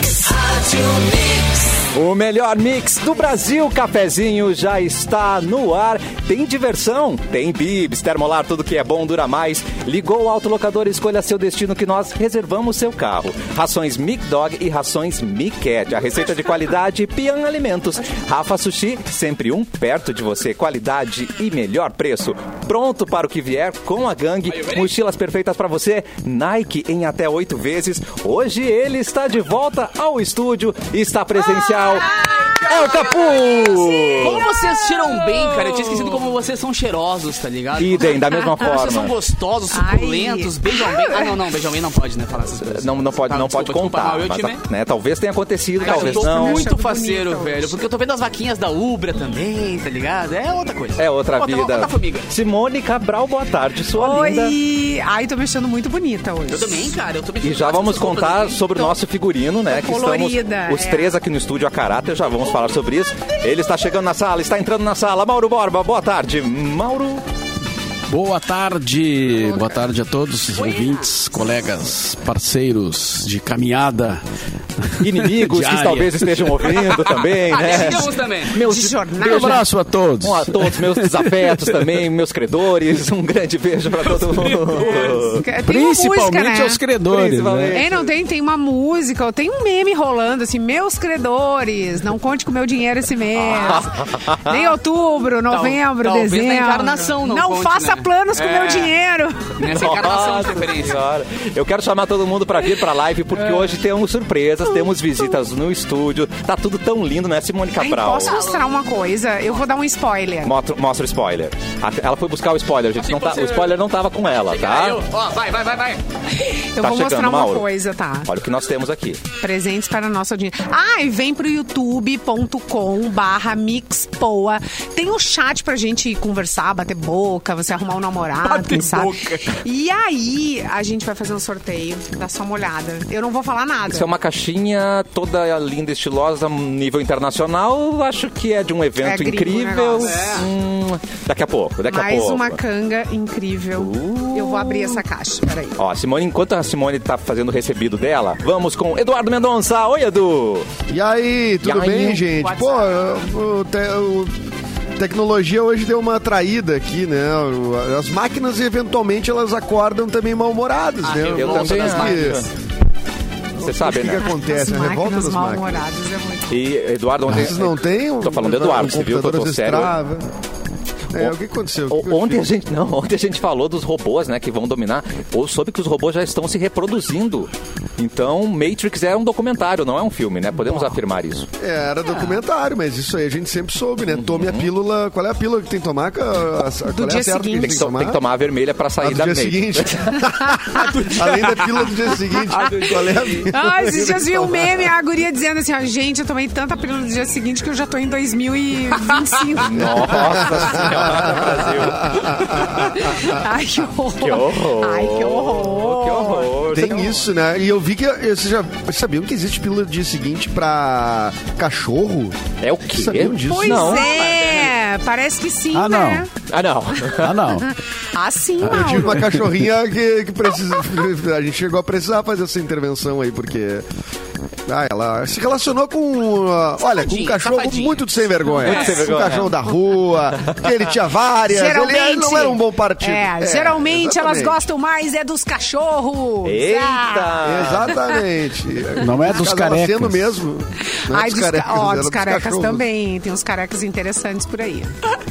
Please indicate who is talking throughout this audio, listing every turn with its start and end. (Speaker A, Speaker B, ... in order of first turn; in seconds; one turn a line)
Speaker A: 0.5-1.0
Speaker A: 1.8-32.1
Speaker B: 24.5-24.9
Speaker B: 32.1-33.1
Speaker A: 32.7-34.5
Speaker B: 34.2-44.6
Speaker A: 37.8-39.1
Speaker C: 39.7-41.3
Speaker A: 42.6-46.7
Speaker C: 45.8-47.7
Speaker B: 45.8-52.3
Speaker A: 51.0-54.5
Speaker C: 54.0-56.9
Speaker B: 56.5-58.8
Speaker A: 57.4-67.2
Speaker C: 59.7-61.2
Speaker D: 68.1-74.2
Speaker C: 69.5-69.7
Speaker B: 70.5-71.7
Speaker D: 75.0-76.6
Speaker A: 75.0-79.6
Speaker B: 77.4-78.6
Speaker C: 78.6-79.7
Speaker D: 79.2-81.9
Speaker A: 80.2-85.4
Speaker B: 84.1-85.4
Speaker C: 85.4-86.8
Speaker D: 85.6-87.8
Speaker A: 87.1-88.1
Speaker C: 87.7-99.7
Speaker A: 93.3-94.7
Speaker B: 95.5-99.0
Speaker B: 99.6-101.0
Speaker A: 99.6-108.4
Speaker C: 107.8-110.5
Speaker B: 108.2-108.8
Speaker A: 110.4-115.0
Speaker B: 113.0-113.8
Speaker B: 114.5-116.0
Speaker C: 116.4-118.3
Speaker A: 116.8-117.7
Speaker A: 118.2-119.2
Speaker C: 119.4-134.1
Speaker B: 128.4-129.6
Speaker A: 133.8-142.6
Speaker C: 139.0-140.2
Speaker B: 140.0-140.5
Speaker C: 141.9-145.8
Speaker A: 143.8-145.0
Speaker A: 145.8-150.7
Speaker E: 150.9-162.5
Speaker A: 151.6-152.2
Speaker B: 152.3-153.3
Speaker B: 161.0-162.4
Speaker A: 161.3-162.5
Speaker E: 163.6-165.8
Speaker A: 163.6-164.3
Speaker C: 164.4-166.7
Speaker A: 166.5-169.9
Speaker E: 167.3-170.3
Speaker E: 171.1-172.5
Speaker A: 171.9-181.5
Speaker E: 181.6-188.2
Speaker A: 184.1-184.7
Speaker C: 186.9-187.8
Speaker A: 187.6-190.2
Speaker E: 189.0-194.9
Speaker B: 190.7-191.9
Speaker B: 192.5-193.4
Speaker C: 193.5-201.4
Speaker A: 199.6-203.4
Speaker E: 200.1-203.2
Speaker C: 202.9-207.1
Speaker A: 204.2-207.2
Speaker E: 206.7-214.0
Speaker A: 212.6-214.1
Speaker C: 213.5-216.3
Speaker B: 213.9-214.7
Speaker D: 215.7-216.3
Speaker A: 216.5-217.5
Speaker D: 217.2-217.7
Speaker C: 217.6-219.2
Speaker D: 218.7-219.4
Speaker E: 218.7-223.9
Speaker E: 224.7-234.7
Speaker B: 226.9-228.1
Speaker B: 228.6-229.0
Speaker A: 228.6-229.6
Speaker C: 231.5-237.4
Speaker A: 236.4-237.9
Speaker E: 237.4-242.8
Speaker D: 239.0-240.3
Speaker C: 241.0-244.9